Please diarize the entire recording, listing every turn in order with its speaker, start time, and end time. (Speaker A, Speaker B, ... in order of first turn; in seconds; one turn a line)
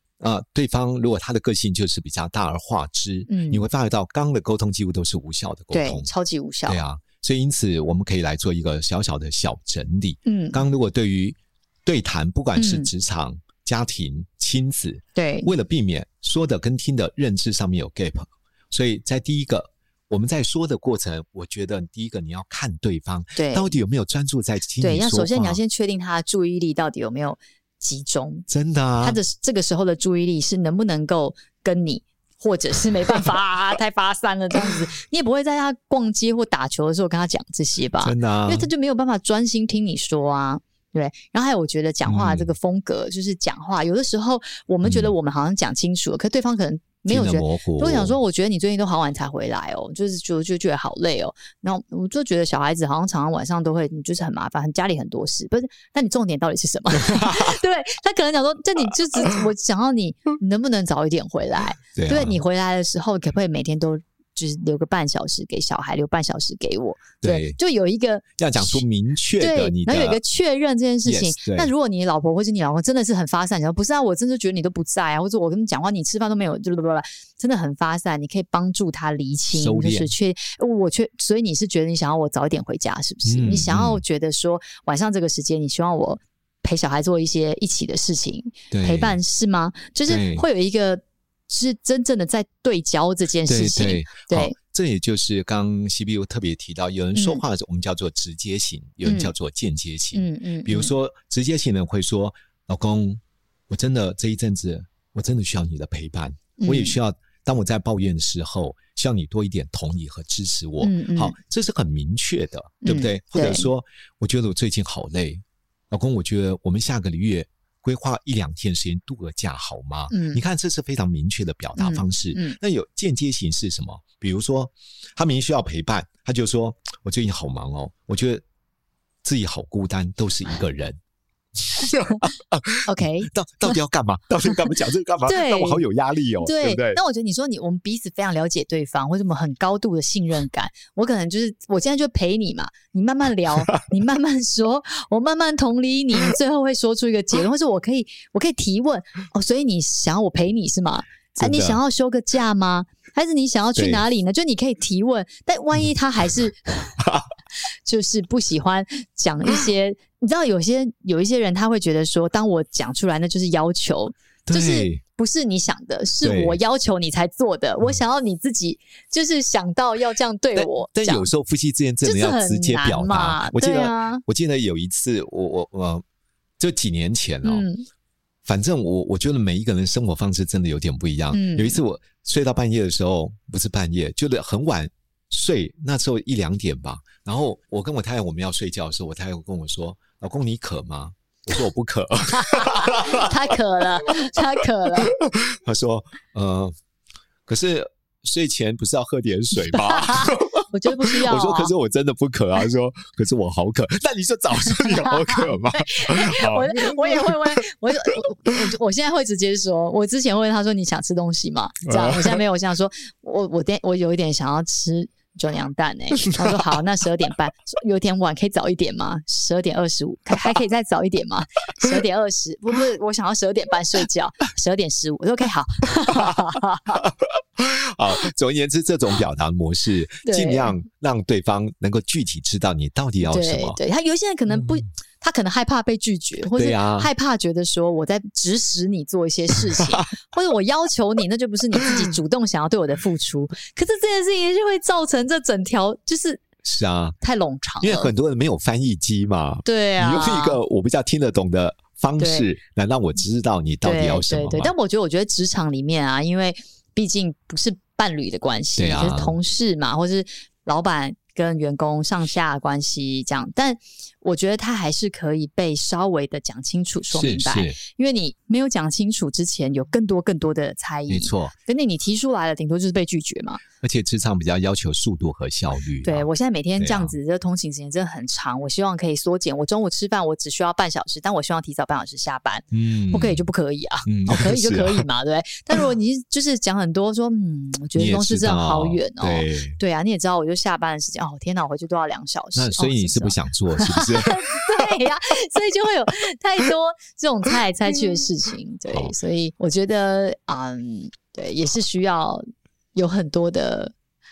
Speaker A: 0.2-6.1
Speaker B: 3.3-3.6
Speaker B: 5.7-6.8
Speaker A: 6.7-25.6
Speaker B: 10.2-10.6
Speaker B: 12.6-12.9
Speaker B: 15.2-15.5
Speaker B: 23.4-23.7
Speaker B: 24.8-28.5
Speaker A: 28.5-29.2
Speaker B: 29.0-68.8
Speaker A: 38.0-38.7
Speaker A: 42.1-42.5
Speaker A: 44.8-45.1
Speaker A: 47.1-48.2
Speaker A: 62.0-62.4
Speaker A: 67.2-67.6
Speaker A: 68.4-70.2
Speaker B: 69.4-94.5
Speaker A: 71.0-71.7
Speaker A: 79.5-80.1
Speaker A: 83.2-84.0
Speaker A: 88.7-89.2
Speaker A: 90.1-90.5
Speaker A: 93.5-128.4
Speaker B: 97.2-97.4
Speaker B: 99.0-99.3
Speaker B: 100.1-100.9
Speaker B: 106.6-107.0
Speaker B: 110.8-111.4
Speaker B: 112.8-113.7
Speaker B: 120.1-120.4
Speaker B: 121.8-122.6
Speaker A: 129.2-131.0
Speaker A: 131.7-137.0
Speaker B: 132.9-133.3
Speaker B: 135.2-135.8
Speaker B: 136.4-157.0
Speaker A: 151.4-151.8
Speaker A: 153.8-154.0
Speaker B: 157.8-171.3
Speaker A: 164.5-165.0
Speaker A: 166.2-166.6
Speaker A: 170.6-176.0
Speaker B: 172.0-174.2
Speaker A: 176.6-177.7
Speaker B: 177.4-177.8
Speaker A: 178.4-193.3
Speaker B: 181.3-181.8
Speaker B: 192.4-195.1
Speaker A: 195.0-196.7
Speaker A: 197.5-207.6
Speaker B: 199.7-201.7
Speaker B: 204.8-227.0
Speaker A: 211.9-212.4
Speaker A: 227.0-233.8
Speaker B: 230.2-230.7
Speaker B: 233.2-246.4
Speaker A: 236.5-237.1
Speaker A: 246.6-247.2
Speaker B: 247.2-248.1
Speaker A: 247.8-254.7
Speaker B: 249.6-250.6
Speaker B: 252.2-252.5
Speaker B: 253.8-273.6
Speaker A: 258.8-259.4
Speaker A: 267.1-267.8
Speaker A: 271.1-271.5
Speaker A: 273.8-276.3
Speaker B: 276.0-302.4
Speaker A: 276.8-277.1
Speaker A: 282.7-283.5
Speaker A: 284.1-285.1
Speaker A: 287.9-289.8
Speaker A: 292.6-294.8
Speaker A: 298.9-299.1
Speaker B: 302.9-303.9